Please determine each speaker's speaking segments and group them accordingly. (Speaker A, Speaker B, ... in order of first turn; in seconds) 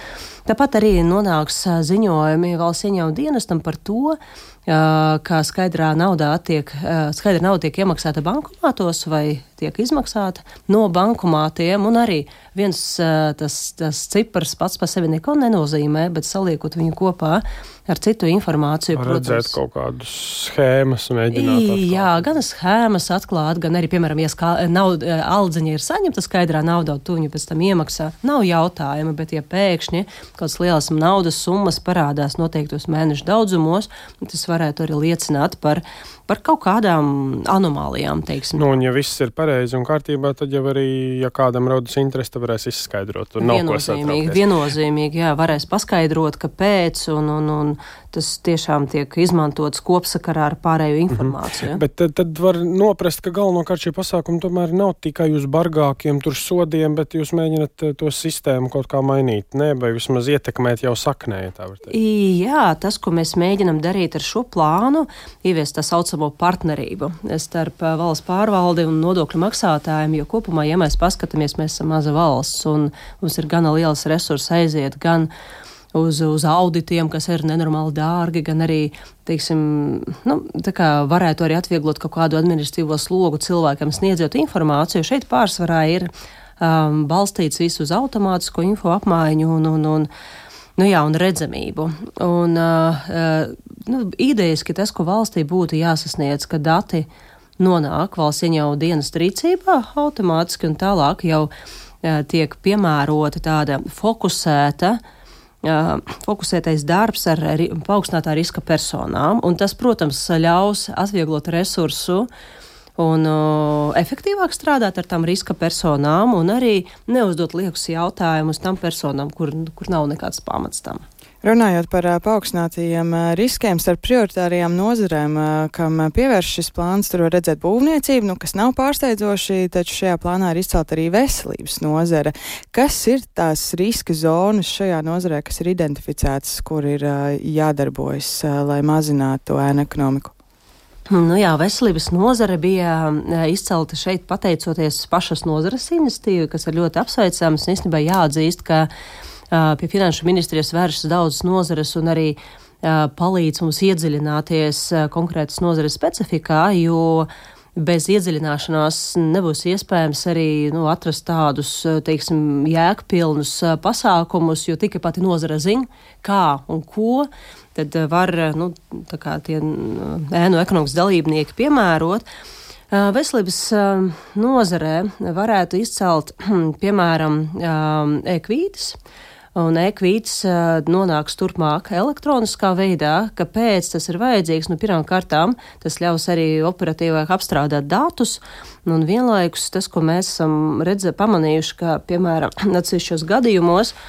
Speaker A: 0.5-19.6, 21.3-38.6, 43.4-51.8, 61.9-75.3, 75.9-90.1, 90.8-97.1, 97.6-101.5, 102.0-105.0, 105.6-112.3, 113.0-121.0, 141.1-148.9, 149.5-172.2, 172.9-179.0, 179.5-193.9
Speaker B: 18.9-22.3, 38.5-44.4, 51.1-61.9
Speaker C: 121.4-140.3